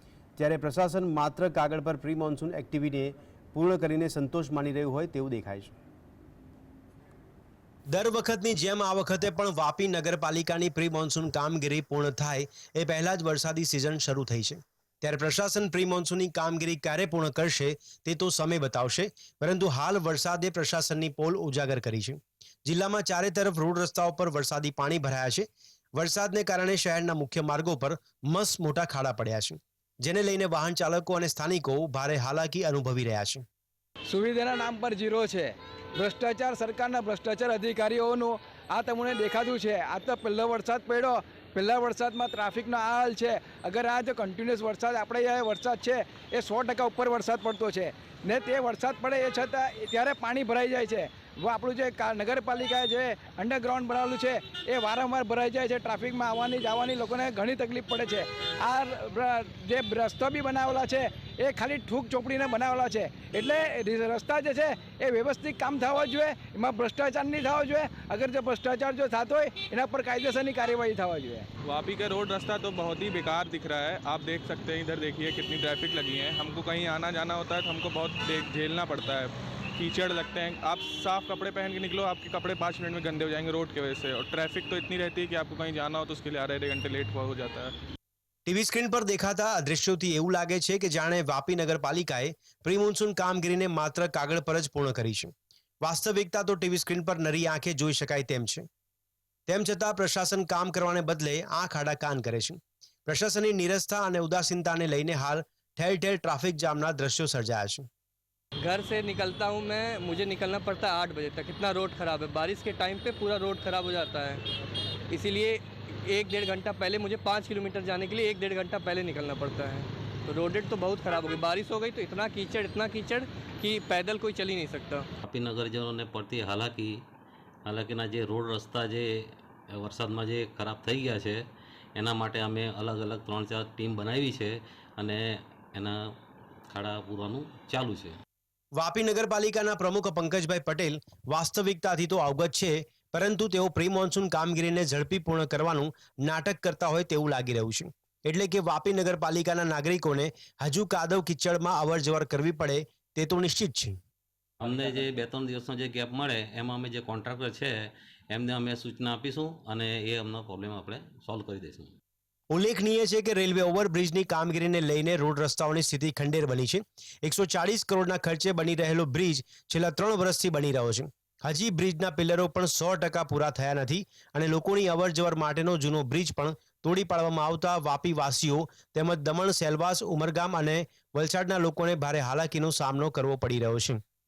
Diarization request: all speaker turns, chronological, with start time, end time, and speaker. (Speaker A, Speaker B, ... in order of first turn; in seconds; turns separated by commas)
Speaker A: 0.4-5.7, Speaker A: 7.9-33.4, Speaker B: 34.1-71.5, Speaker C: 71.6-87.7, Speaker A: 88.5-98.7, Speaker A: 99.5-107.9, Speaker D: 108.6-114.4, Speaker D: 115.1-125.1, Speaker E: 125.2-127.0, Speaker E: 127.7-131.4, Speaker E: 132.0-136.0, Speaker E: 136.7-138.2, Speaker A: 138.8-154.0, Speaker E: 154.6-161.9, Speaker A: 162.5-184.0